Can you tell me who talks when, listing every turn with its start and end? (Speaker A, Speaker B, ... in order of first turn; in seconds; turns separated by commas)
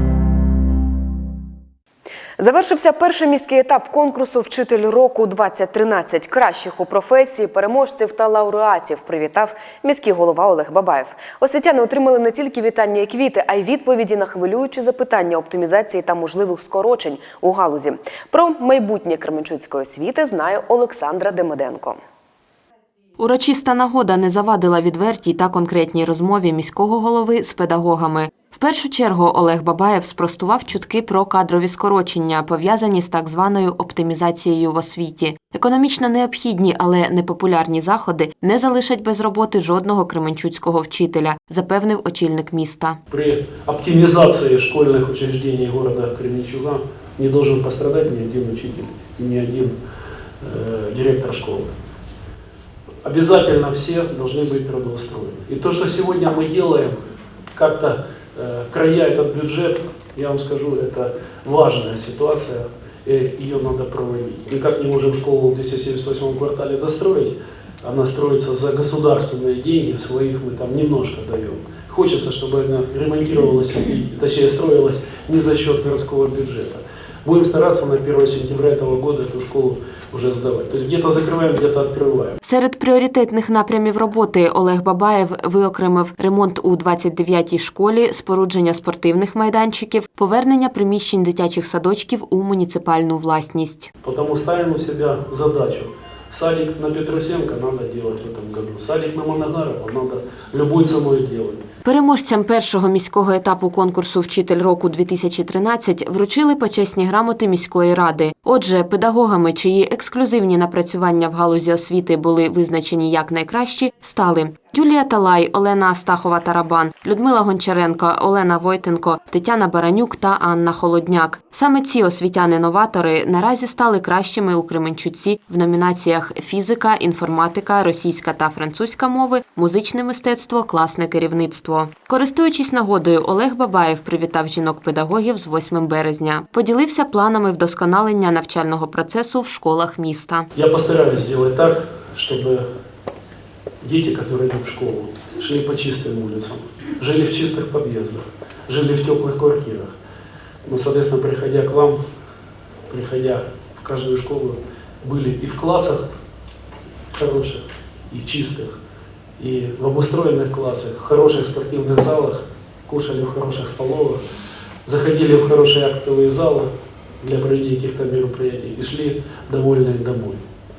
Speaker A: 2.4-22.0, Speaker B: 23.2-43.0, Speaker C: 43.1-49.8, Speaker C: 50.4-51.7, Speaker C: 53.0-57.0, Speaker C: 57.5-82.4, Speaker B: 82.4-93.9, Speaker C: 94.0-101.7, Speaker B: 101.8-140.5, Speaker C: 140.6-142.7, Speaker C: 143.8-149.9, Speaker C: 150.7-152.0, Speaker C: 152.9-156.1, Speaker C: 157.1-158.8, Speaker C: 159.4-164.2, Speaker C: 164.8-166.7, Speaker C: 167.2-170.5